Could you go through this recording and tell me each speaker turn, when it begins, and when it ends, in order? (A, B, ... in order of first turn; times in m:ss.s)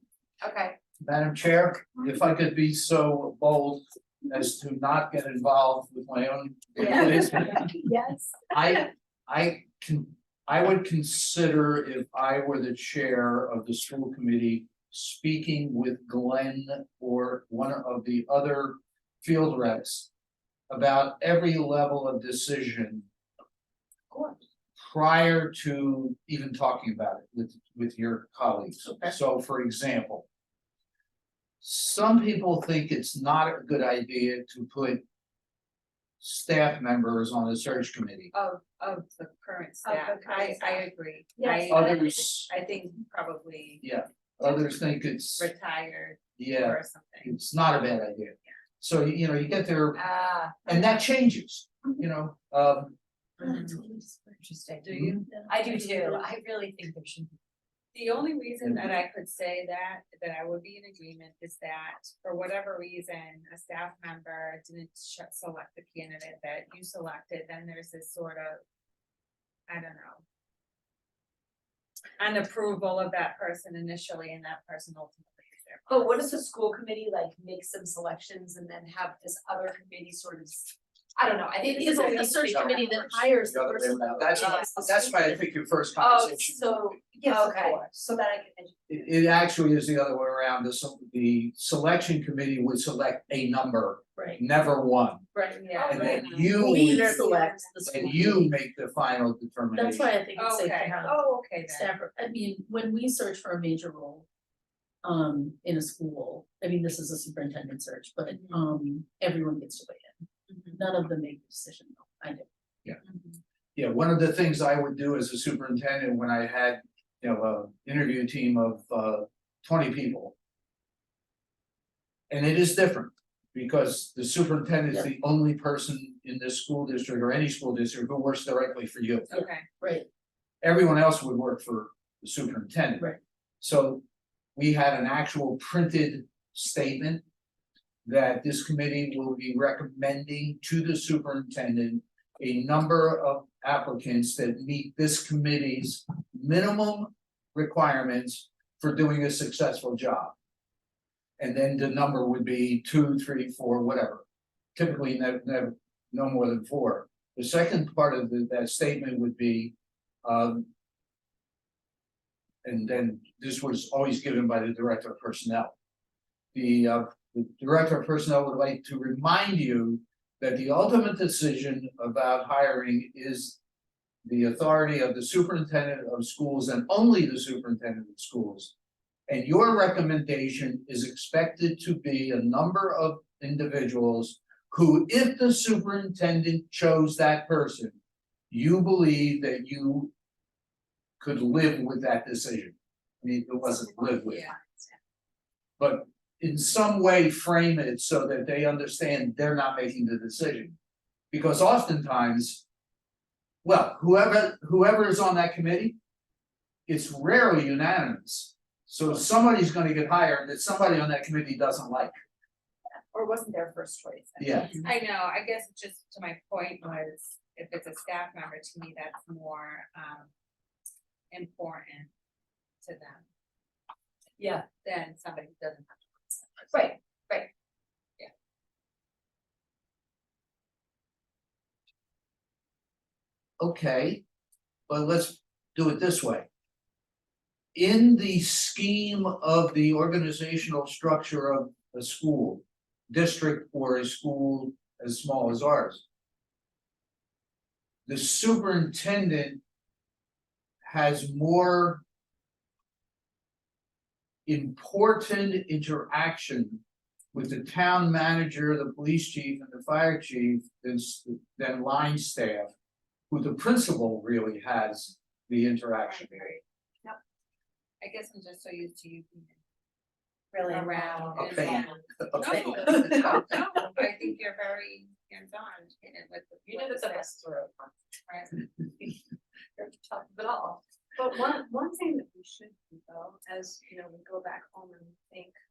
0:00.4-0:00.8 A
0:01.0-0:07.7 B
0:06.8-0:08.3 A
0:08.5-0:20.1 B
0:20.7-0:23.1 B
0:24.8-0:30.2 B
0:28.8-0:29.2 C
0:31.6-0:35.0 B
0:36.2-0:38.3 B
0:38.3-0:47.4 D
0:39.8-0:42.1 A
0:41.7-0:42.5 B
0:43.8-0:45.5 B
0:46.4-0:50.0 B
0:50.0-0:50.9 A
0:50.6-0:53.0 B
0:53.4-0:57.4 A
0:53.4-0:54.1 C
0:54.9-0:55.2 D
0:54.9-0:55.2 B
0:55.2-0:55.9 C
0:57.9-1:08.6 D
0:58.6-0:58.9 B
1:09.7-1:10.2 D
1:12.2-1:16.2 D
1:15.9-1:23.4 A
1:21.7-1:25.1 C
1:22.5-1:22.8 B
1:23.3-1:27.0 B
1:24.3-1:25.3 A
1:26.0-1:29.0 A
1:27.3-1:27.8 C
1:28.9-1:35.3 B
1:35.4-1:38.5 C
1:35.6-1:37.2 D
1:35.7-1:37.6 A
1:35.9-1:37.3 B
1:37.8-1:40.1 B
1:39.7-1:44.3 C
1:40.4-1:41.9 D
1:45.0-1:50.2 C
1:48.3-1:48.6 D
1:50.5-1:50.8 D
1:50.7-1:52.5 C
1:53.0-1:53.4 D
1:53.8-2:00.3 B
2:02.3-2:09.4 B
2:09.3-2:09.7 D
2:09.3-2:10.1 C
2:10.6-2:14.0 B
2:14.6-2:17.2 B
2:18.0-2:30.3 B
2:31.4-2:34.2 B
2:34.8-2:40.7 B
2:42.6-2:45.7 B
2:46.5-2:53.6 B
2:54.2-2:58.7 B
2:59.3-3:08.0 B
3:08.5-3:10.1 B
3:11.2-3:14.5 B
3:14.2-3:14.6 D
3:15.8-3:20.8 B
3:21.3-3:22.6 B
3:23.6-3:26.0 B
3:26.9-3:32.1 B
3:33.1-3:34.9 A
3:34.4-3:34.8 B
3:34.8-3:40.3 D
3:41.3-3:42.1 D
3:42.8-3:43.2 D
3:44.4-3:44.6 A
3:44.7-3:46.7 D
3:46.7-3:47.5 A
3:53.6-3:54.2 B
3:54.9-3:56.5 B
3:57.8-4:06.0 B
4:08.1-4:09.6 B
4:10.8-4:12.0 B
4:14.5-4:16.8 B
4:17.3-4:22.7 B
4:23.3-4:26.6 B
4:26.1-4:26.6 D
4:28.0-4:29.6 D
4:30.5-4:32.0 A
4:30.6-4:37.4 D
4:31.4-4:33.2 B
4:36.7-4:37.9 A
4:38.3-4:38.6 D
4:39.8-4:42.9 A